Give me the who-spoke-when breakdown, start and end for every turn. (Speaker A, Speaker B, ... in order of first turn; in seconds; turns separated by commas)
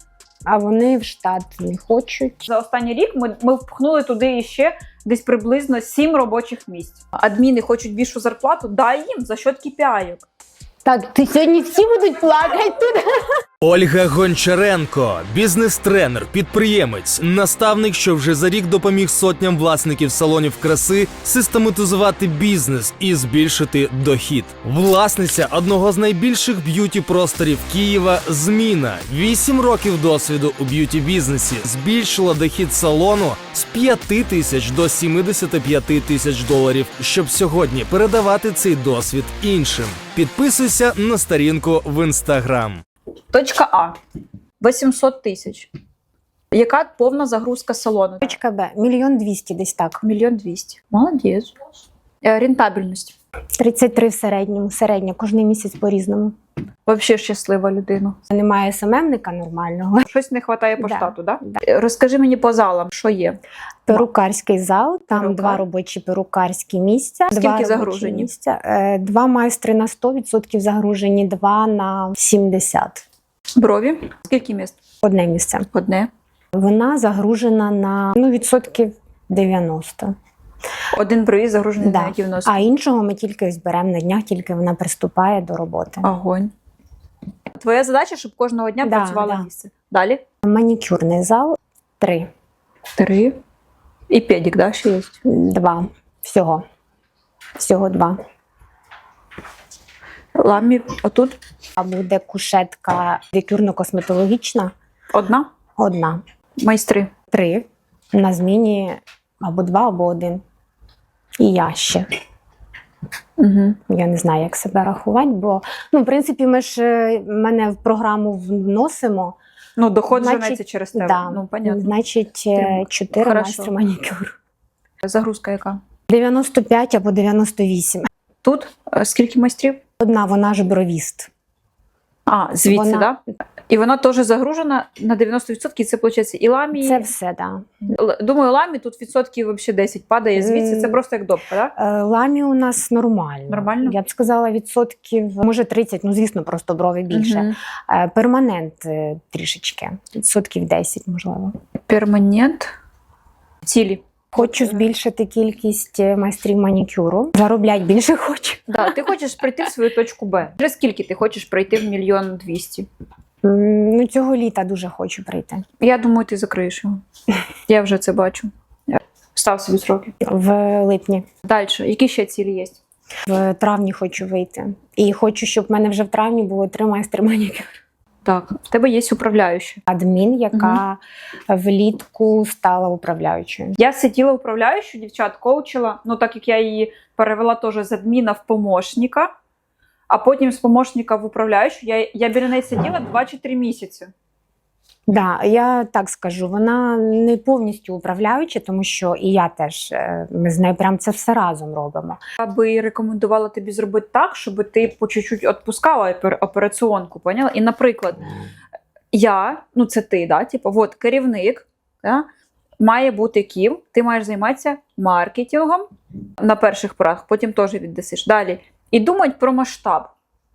Speaker A: 0.5-2.5, Speaker B: 2.5-10.2, Speaker A: 10.8-13.1, Speaker C: 13.6-42.8, Speaker B: 43.3-44.0, Speaker B: 44.6-45.7, Speaker B: 46.5-48.3, Speaker A: 48.2-50.0, Speaker B: 50.0-51.5, Speaker B: 52.2-53.1, Speaker A: 53.6-56.3, Speaker B: 56.9-58.2, Speaker A: 58.3-60.1, Speaker B: 60.1-63.4, Speaker A: 60.8-61.6, Speaker A: 63.9-73.0, Speaker B: 65.1-65.6, Speaker B: 67.3-68.3, Speaker B: 73.6-74.8, Speaker A: 75.0-75.7, Speaker B: 75.7-76.1, Speaker A: 76.5-80.1, Speaker B: 80.9-82.7, Speaker A: 81.8-86.1, Speaker B: 86.0-86.5, Speaker B: 87.5-90.2, Speaker A: 88.8-89.5, Speaker A: 90.4-92.3, Speaker B: 93.0-93.3, Speaker B: 94.1-95.2, Speaker A: 95.2-96.6, Speaker A: 97.6-98.2, Speaker B: 100.3-101.3, Speaker A: 101.8-104.7, Speaker B: 105.1-105.5, Speaker A: 105.8-106.2, Speaker B: 106.6-107.1, Speaker A: 107.3-110.4, Speaker A: 111.4-112.1, Speaker B: 113.4-113.8, Speaker A: 113.9-119.4, Speaker B: 119.8-121.9, Speaker A: 120.1-124.3, Speaker B: 122.5-123.7, Speaker B: 125.0-125.8, Speaker A: 126.1-128.1, Speaker B: 128.4-129.8, Speaker A: 130.0-131.3, Speaker B: 132.3-137.1, Speaker A: 132.7-133.1, Speaker A: 136.8-137.6, Speaker B: 137.9-141.7, Speaker A: 140.3-141.0, Speaker A: 141.8-151.5, Speaker B: 143.5-144.0, Speaker B: 147.1-147.5, Speaker B: 151.9-152.7, Speaker B: 153.6-154.8, Speaker A: 154.3-158.7, Speaker B: 158.7-162.9, Speaker A: 163.4-165.6, Speaker B: 165.8-167.0, Speaker B: 167.7-170.1, Speaker A: 170.2-171.2, Speaker B: 171.4-172.8, Speaker A: 173.3-177.8, Speaker B: 178.2-179.8, Speaker A: 179.9-183.7, Speaker B: 180.5-180.8, Speaker B: 183.8-189.3, Speaker B: 190.1-194.1, Speaker A: 195.1-202.2, Speaker B: 202.4-208.2, Speaker B: 209.1-212.2, Speaker B: 212.8-215.9, Speaker B: 216.4-220.1